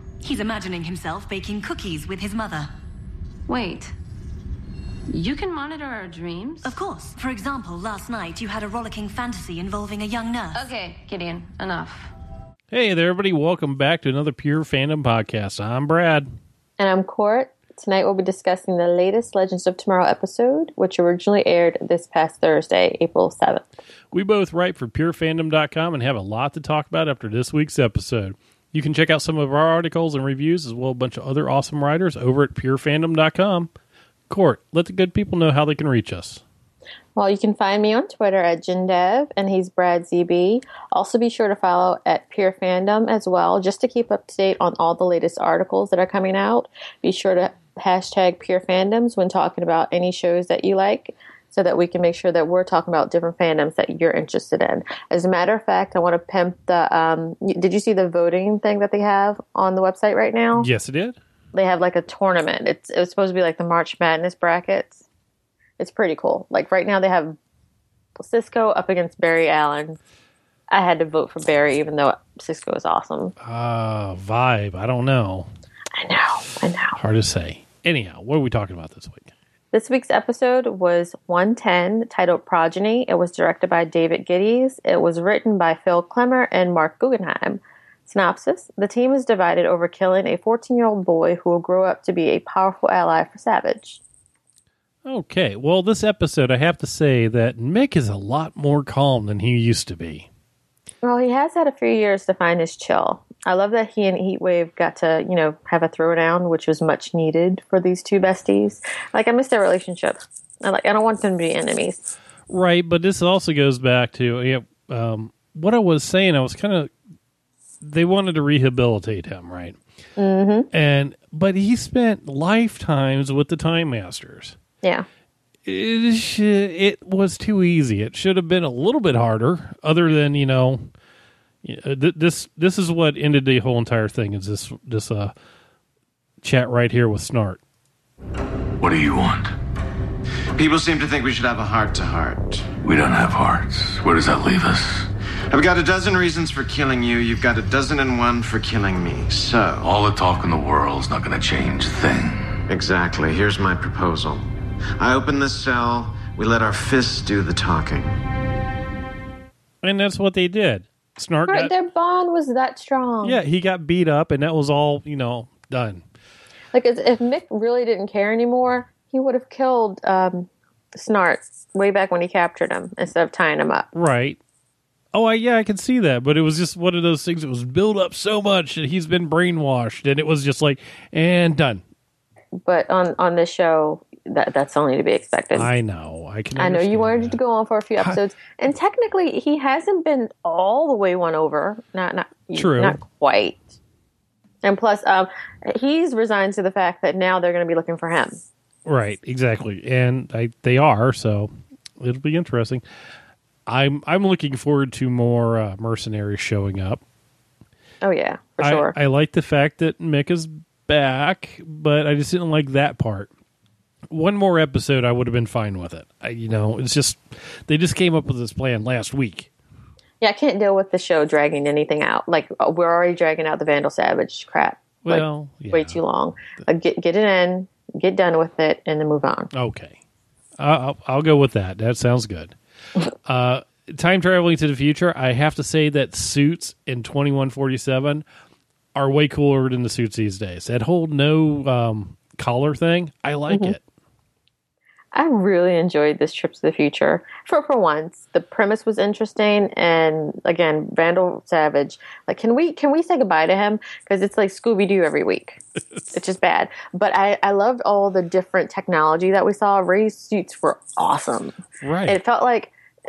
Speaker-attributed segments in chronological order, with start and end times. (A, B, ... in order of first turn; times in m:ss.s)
0:00.2-0:02.7 A
0:03.5-0:03.9 B
0:05.1-0:06.8 B
0:06.6-0:10.7 A
0:10.6-0:12.1 B
0:12.7-0:16.3 C
0:16.8-0:23.7 D
0:24.1-0:33.7 C
0:34.3-0:36.4 C
0:37.2-1:00.7 D
1:00.6-1:01.2 C
1:01.5-1:05.0 D
1:05.8-1:07.4 D
1:08.2-1:10.0 D
1:10.7-1:13.3 D
1:13.4-1:15.5 C
1:16.0-1:17.0 D
1:17.0-1:19.3 C
1:19.7-1:34.0 D
1:35.0-1:40.3 C
1:41.0-1:52.1 D
1:52.5-1:56.9 C
1:57.8-1:59.8 C
2:00.2-2:00.7 D
2:00.7-2:04.6 C
2:05.7-2:10.9 C
2:11.6-2:15.3 C
2:16.4-2:17.6 C
2:18.8-2:19.5 E
2:20.5-2:22.7 F
2:22.8-2:25.1 E
2:25.5-2:30.0 F
2:29.8-2:32.6 E
2:32.7-2:38.2 F
2:39.8-2:41.7 C
2:41.5-2:43.4 D
2:43.2-2:46.0 C
2:46.7-2:53.9 D
2:53.9-2:54.4 C
2:55.1-3:01.8 C
3:02.6-3:05.7 D
3:05.6-3:07.4 C
3:06.6-3:13.7 D
3:12.6-3:13.0 C
3:14.6-3:18.4 D
3:18.8-3:22.8 C
3:23.7-3:27.0 C
3:28.0-3:28.9 D
3:28.6-3:33.3 C
3:34.1-3:39.5 C
3:40.2-3:49.5 D
3:45.0-3:46.0 C
3:49.5-3:50.0 C
3:50.6-3:52.6 C
3:53.2-3:58.2 C
3:59.0-4:03.8 C
4:03.5-4:03.8 D
4:05.1-4:15.6 D
4:16.1-4:21.6 D
4:21.8-4:22.2 C
4:22.1-4:22.7 D